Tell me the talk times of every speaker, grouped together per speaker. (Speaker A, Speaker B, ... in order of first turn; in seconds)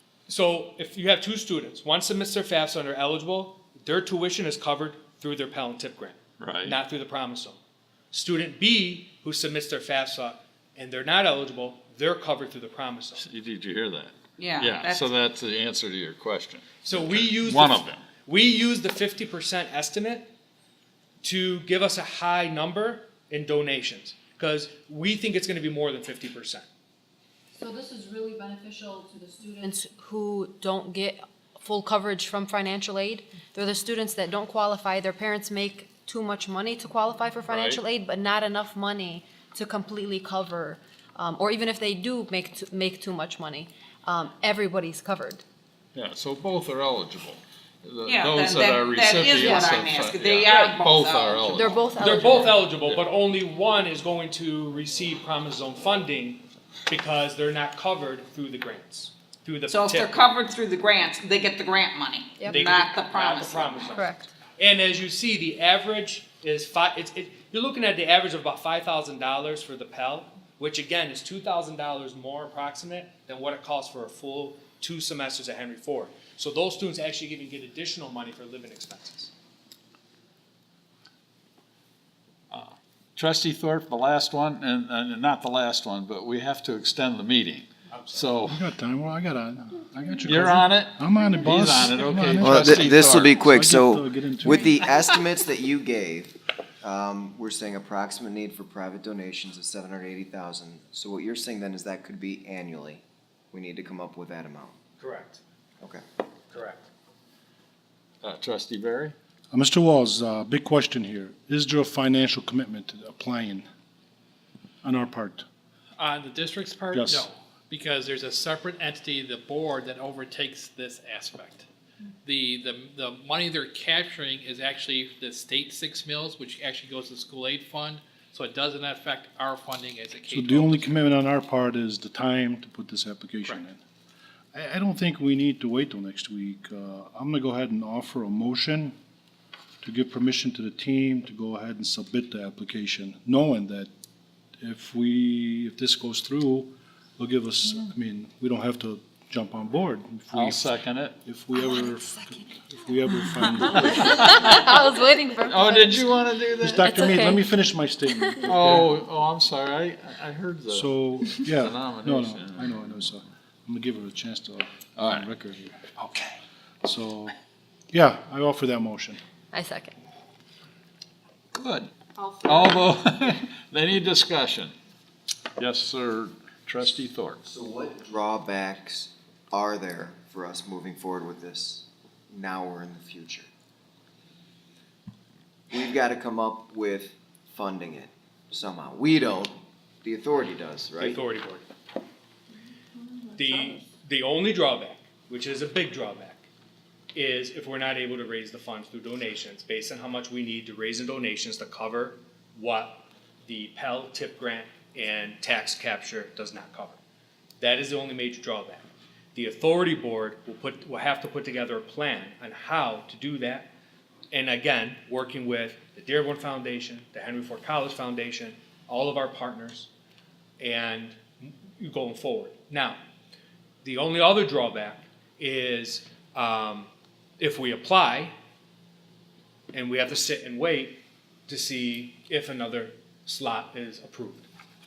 Speaker A: 0.3-7.6, 8.1-13.2, 16.8-20.3, 21.2-26.6, 50.5-50.8, 52.0-60.3, 62.5-79.3, 87.9-88.4, 105.0-105.4, 106.5-106.8, 191.0-191.7, 193.4-196.4, 197.1-207.0, 207.6-213.7, 214.3-219.9, 220.6-223.0, 223.8-228.3, 229.7-234.5
Speaker B: 6.4-6.8, 13.2-18.0, 37.5-37.8, 45.9-51.8, 82.5-88.6, 90.2-93.4, 108.2-109.1, 150.3-151.2, 153.7-154.8, 155.4-156.9, 158.4-163.2, 164.9-165.3, 171.5-174.7, 175.6-177.4
Speaker C: 14.4-15.1, 48.0-51.5, 59.7-63.9
Speaker D: 27.6-45.4, 49.4-49.9, 51.5-52.7, 63.9-64.3, 153.3-157.5, 158.1-158.6, 169.5-169.9
Speaker E: 88.5-92.9, 93.4-94.8, 109.5-113.7, 114.8-115.4, 116.9-117.3, 130.3-133.8, 134.5-138.9, 139.8-143.9, 144.6-154.1, 156.6-158.9, 160.7-167.3, 167.9-169.2
Speaker F: 92.4-104.8, 177.4-183.5, 185.7-191.2
Speaker G: 116.0-121.7, 122.2-131.0